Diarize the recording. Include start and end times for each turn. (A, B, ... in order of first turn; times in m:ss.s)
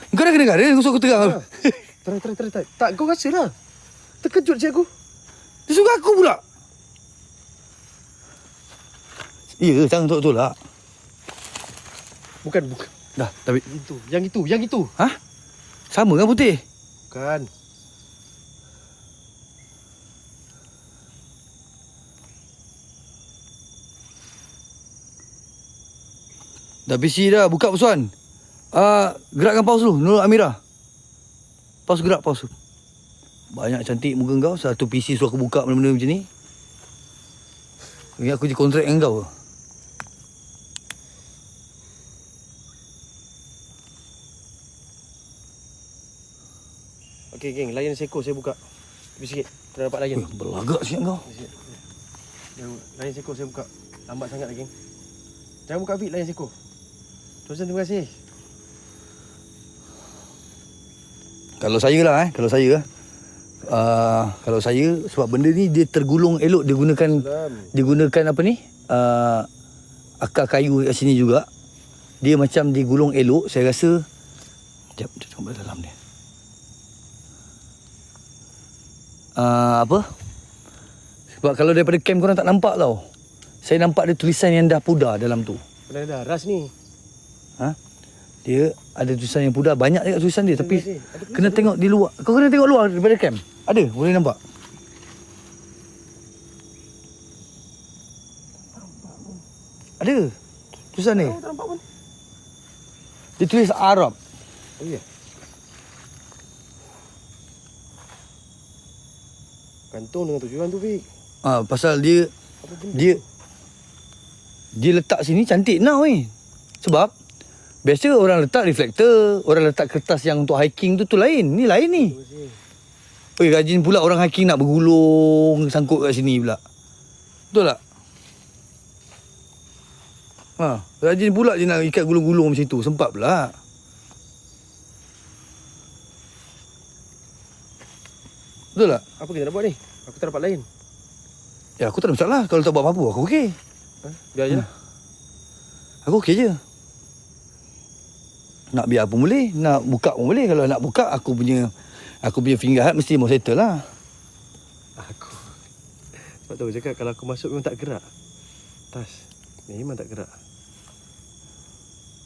0:00.1-0:01.8 A
0:01.2-0:01.5 B
0:02.0-0:03.5 B
0:04.2-0:04.9 B
0:05.7-0:06.4 A
0:09.6-0:10.6 A
0:12.4-0:12.9 B
0:13.2-0:13.6 A
0:13.6-0:14.9 B
0:15.9-0:16.6 A
0:17.1-0:17.5 B
0:26.9-0:28.1 A
0:28.7-0:30.6 A
0:31.9-0:32.5 A
0:33.5-0:36.3 A
0:38.2-0:39.3 A
0:47.3-0:48.6 B
0:49.2-0:50.2 B
0:50.1-0:51.2 A
0:51.2-0:51.8 B
0:52.6-0:54.7 B
0:55.7-0:56.6 B
0:57.4-0:58.2 B
1:01.6-1:02.9 A
1:03.6-1:09.5 A
1:07.1-1:07.7 B
1:10.2-1:11.5 A
1:12.2-1:14.0 A
1:15.0-1:15.9 A
1:19.4-1:20.1 A
1:21.4-1:23.1 A
1:23.6-1:25.6 A
1:25.9-1:26.7 B
1:28.4-1:34.4 A
1:30.5-1:31.7 B
1:40.0-1:40.3 A
1:40.9-1:41.4 A
1:41.1-1:41.8 B
1:43.4-1:44.2 A
1:44.8-1:45.0 B
1:49.9-1:51.1 B
1:51.4-1:52.3 A
1:52.6-1:53.2 B
1:52.9-1:53.2 A
1:54.7-1:57.1 A
1:57.8-2:02.2 A
2:02.0-2:02.6 B
2:03.4-2:06.6 A
2:07.5-2:07.8 A
2:10.6-2:13.6 A
2:18.7-2:19.0 A
2:19.2-2:20.7 B
2:21.8-2:23.6 A
2:24.0-2:24.7 B
2:26.0-2:26.6 A
2:28.7-2:33.9 A
2:35.0-2:35.6 B
2:36.1-2:38.1 B
2:38.9-2:40.3 B